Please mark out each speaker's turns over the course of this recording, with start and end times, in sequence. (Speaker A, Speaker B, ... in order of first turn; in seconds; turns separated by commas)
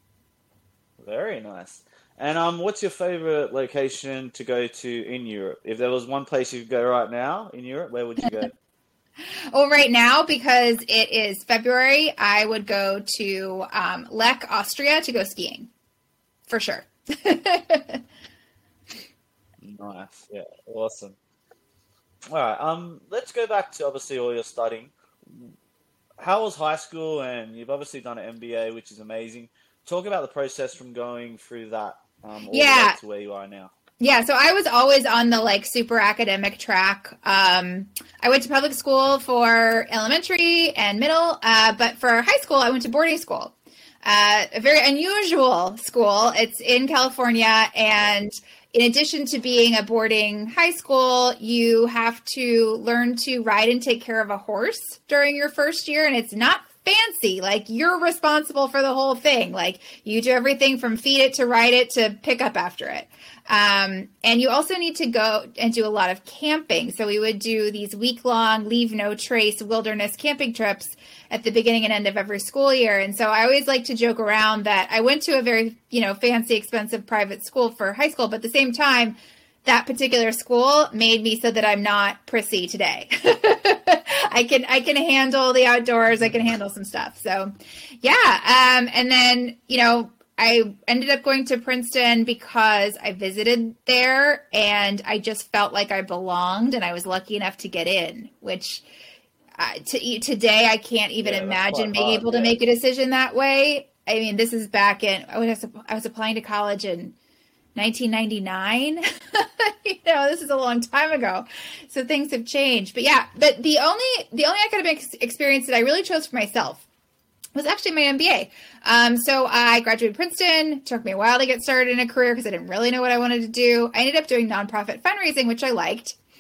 Speaker A: 1.0-8.5, Speaker B: 9.5-15.7, Speaker B: 16.5-18.0, Speaker A: 19.6-21.2, Speaker A: 22.3-25.5, Speaker A: 26.2-33.7, Speaker B: 32.5-33.0, Speaker B: 34.0-98.8, Speaker B: 99.6-107.2, Speaker A: 101.2-102.6, Speaker B: 107.8-116.8, Speaker B: 117.5-126.2